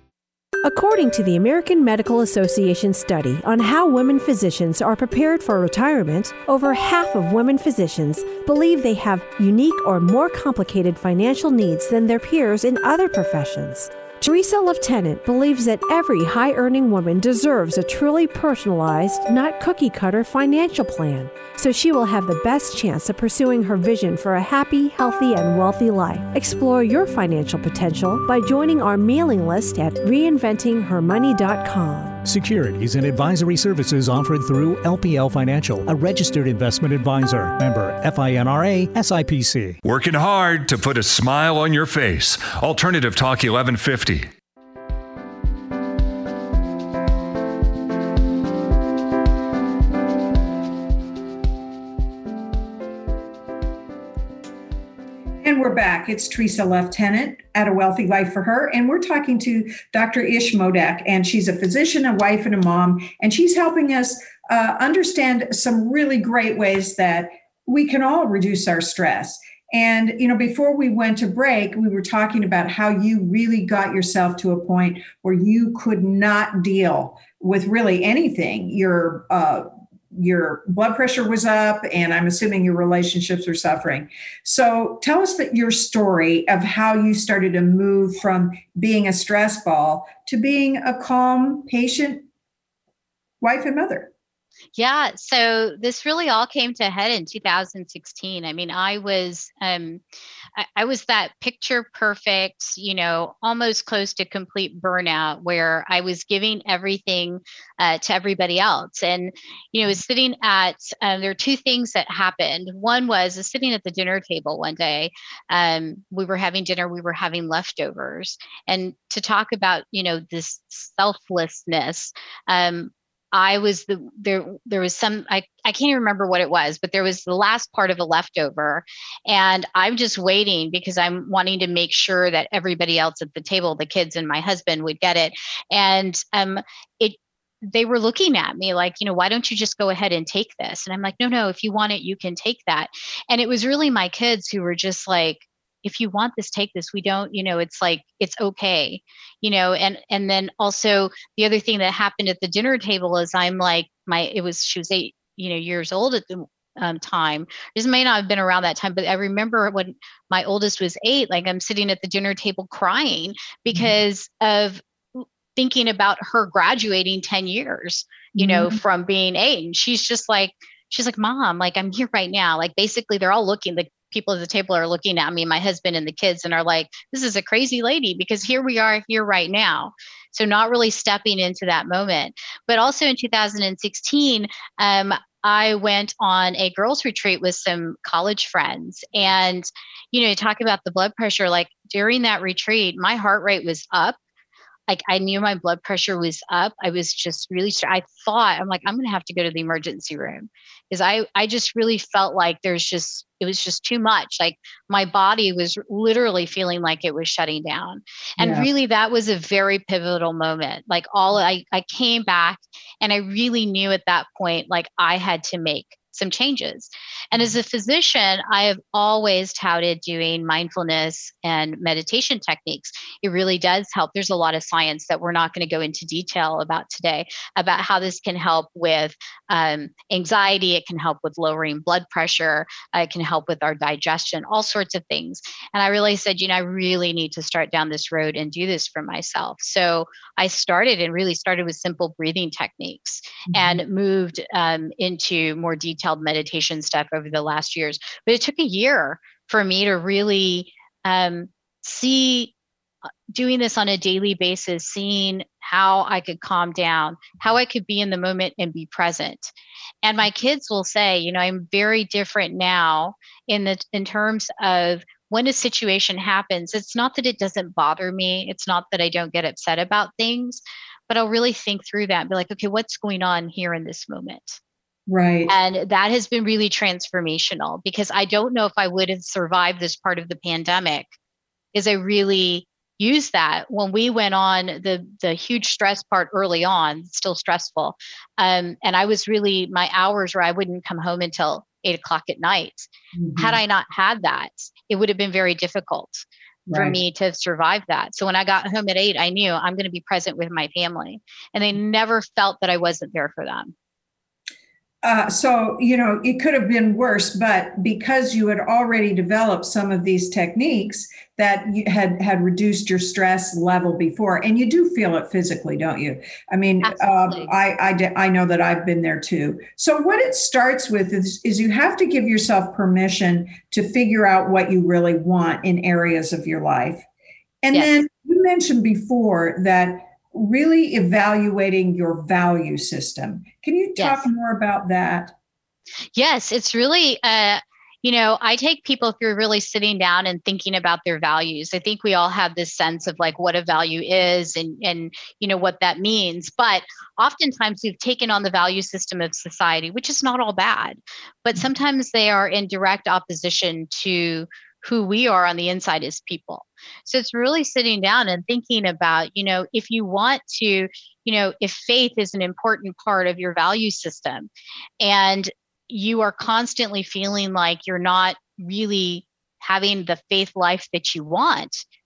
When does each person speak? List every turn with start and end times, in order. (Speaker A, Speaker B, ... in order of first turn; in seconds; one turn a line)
Speaker A: 0.6-32.2
Speaker B: 32.2-39.8
Speaker C: 39.8-44.3
Speaker D: 55.4-92.3
Speaker D: 93.4-94.1
Speaker E: 94.8-100.0
Speaker E: 100.6-194.2
Speaker D: 168.3-168.8
Speaker E: 194.9-252.5
Speaker D: 208.4-208.7
Speaker D: 243.5-243.8
Speaker E: 253.3-274.6
Speaker D: 275.1-275.6
Speaker E: 275.5-281.1
Speaker E: 281.7-303.7
Speaker D: 293.2-293.6
Speaker D: 296.7-297.0
Speaker D: 305.0-327.1
Speaker E: 316.8-317.5
Speaker D: 327.6-335.3
Speaker E: 327.7-328.1
Speaker E: 334.0-334.3
Speaker E: 336.1-371.9